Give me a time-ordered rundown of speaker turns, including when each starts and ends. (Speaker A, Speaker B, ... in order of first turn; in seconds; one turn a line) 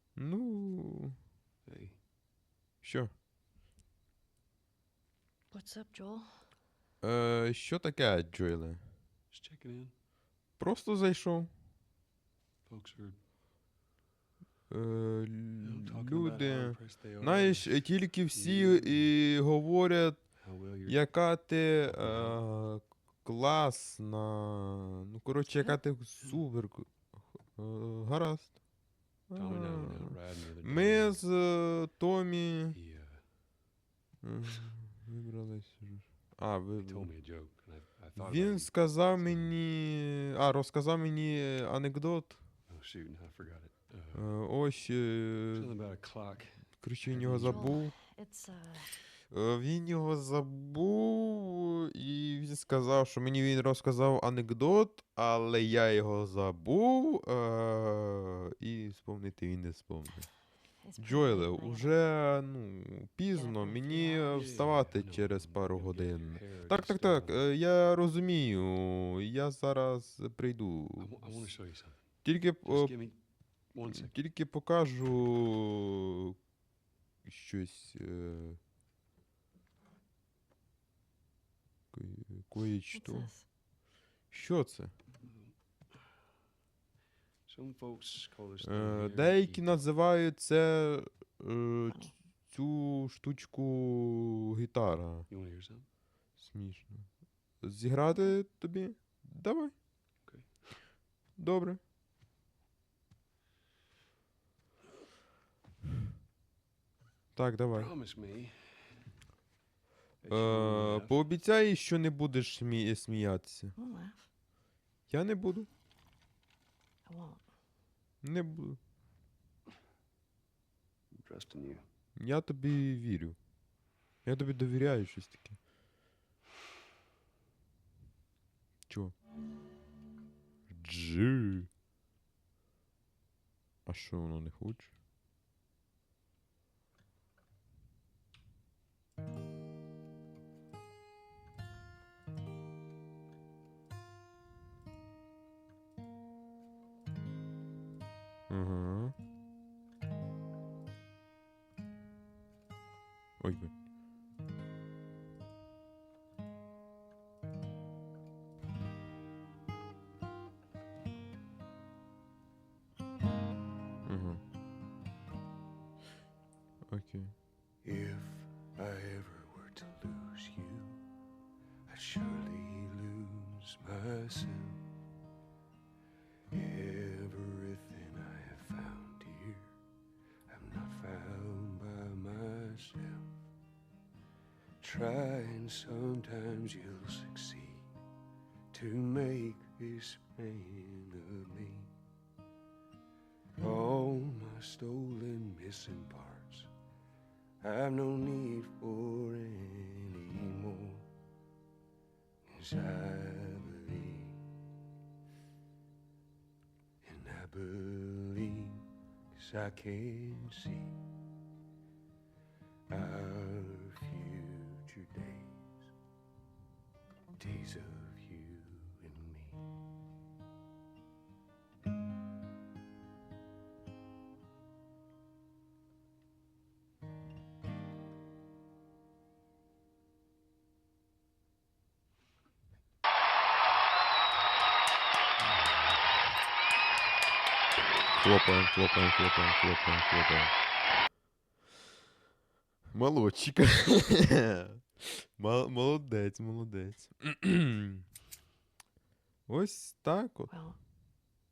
Speaker A: 0.2-1.2
Speaker B: 1.7-2.0
Speaker A: 2.8-3.1
Speaker C: 5.5-6.4
Speaker A: 7.0-8.8
Speaker B: 9.3-9.9
Speaker A: 10.6-11.5
Speaker B: 12.7-13.2
Speaker A: 14.7-20.2
Speaker B: 15.6-19.1
Speaker B: 20.4-21.1
Speaker A: 20.9-28.5
Speaker B: 21.8-22.4
Speaker A: 29.3-32.8
Speaker B: 29.4-31.2
Speaker B: 32.7-33.2
Speaker A: 34.2-37.1
Speaker B: 36.8-39.6
Speaker A: 38.2-42.4
Speaker B: 42.7-44.3
Speaker A: 44.1-45.8
Speaker B: 45.5-47.8
Speaker A: 46.8-47.9
Speaker C: 47.4-49.0
Speaker A: 49.3-60.3
Speaker C: 60.8-62.0
Speaker A: 61.0-71.5
Speaker B: 63.5-67.5
Speaker B: 71.0-72.0
Speaker A: 72.2-73.0
Speaker B: 72.6-73.2
Speaker B: 73.7-74.2
Speaker A: 73.8-76.4
Speaker A: 77.3-78.6
Speaker A: 81.9-83.3
Speaker C: 83.0-83.5
Speaker A: 84.3-84.9
Speaker B: 85.2-85.5
Speaker B: 87.5-89.8
Speaker A: 88.6-95.3
Speaker B: 95.3-95.9
Speaker A: 96.4-97.1
Speaker A: 97.6-99.7
Speaker B: 100.3-100.5
Speaker A: 101.4-101.8
Speaker A: 107.4-107.9
Speaker B: 107.7-109.1
Speaker B: 110.2-111.2
Speaker A: 110.3-113.7
Speaker C: 113.8-114.2
Speaker A: 115.1-115.7
Speaker C: 117.1-117.4
Speaker A: 118.2-118.8
Speaker B: 121.1-121.8
Speaker A: 122.2-123.4
Speaker A: 124.2-125.6
Speaker A: 128.9-129.2
Speaker A: 130.7-131.7
Speaker A: 133.9-134.9
Speaker A: 148.5-149.2
Speaker A: 153.4-153.7
Speaker A: 164.1-164.4
Speaker A: 166.9-167.3
Speaker B: 167.8-171.0
Speaker B: 171.9-174.9
Speaker B: 176.5-179.8
Speaker B: 180.5-183.4
Speaker B: 184.8-187.9
Speaker B: 188.7-191.9
Speaker B: 193.6-196.7
Speaker B: 197.6-201.1
Speaker B: 202.4-204.4
Speaker B: 207.0-211.0
Speaker B: 212.9-215.9
Speaker B: 217.4-219.6
Speaker B: 235.4-236.1
Speaker A: 238.2-240.5
Speaker A: 242.9-248.0
Speaker A: 249.5-250.5
Speaker C: 250.5-250.8